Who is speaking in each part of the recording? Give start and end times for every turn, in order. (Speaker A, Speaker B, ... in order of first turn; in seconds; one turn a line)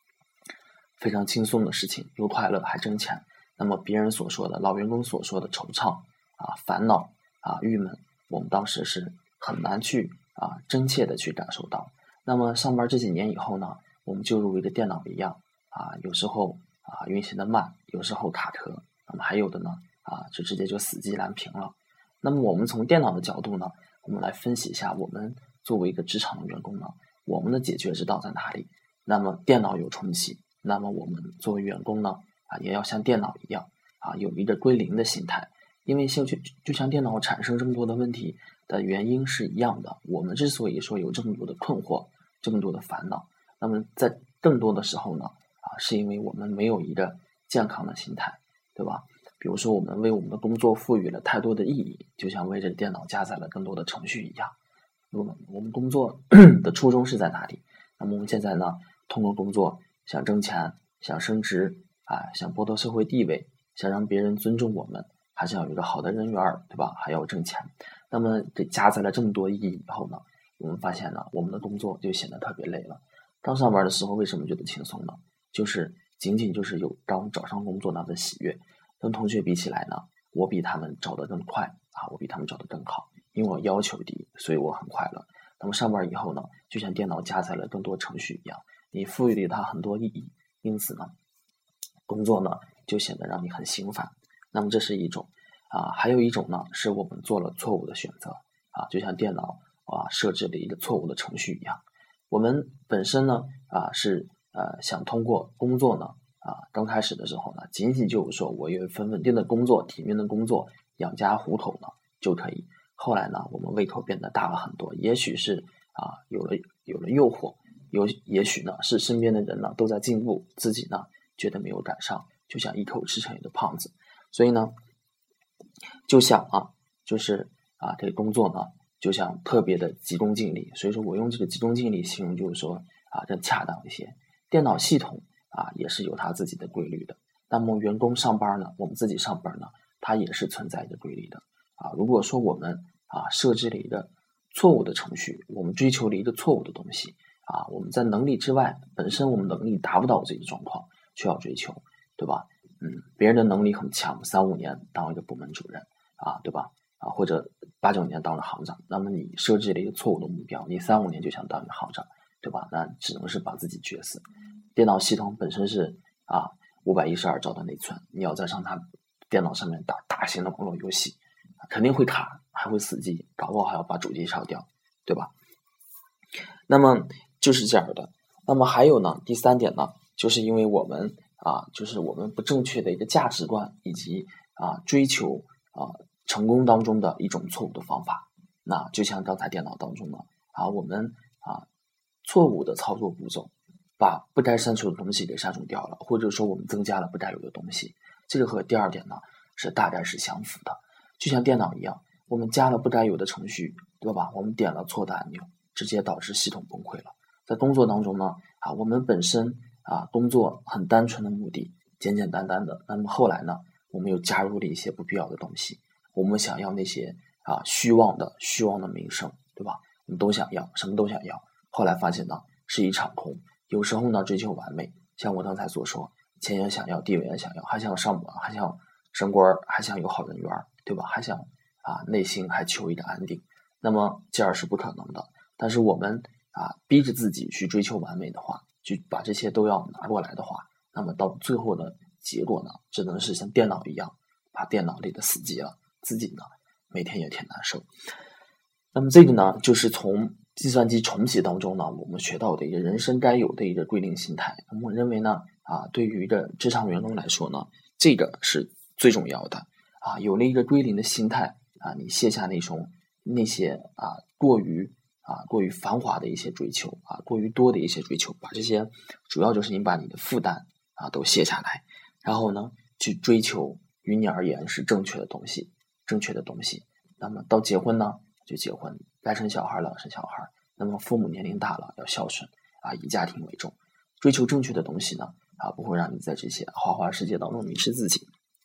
Speaker A: 1.0-54.5
Speaker A: 55.1-91.1
Speaker A: 92.1-124.7
Speaker A: 126.1-164.2
Speaker A: 164.7-171.2
Speaker A: 171.7-175.3
Speaker A: 176.7-191.7
Speaker A: 192.2-247.8
Speaker A: 248.9-288.3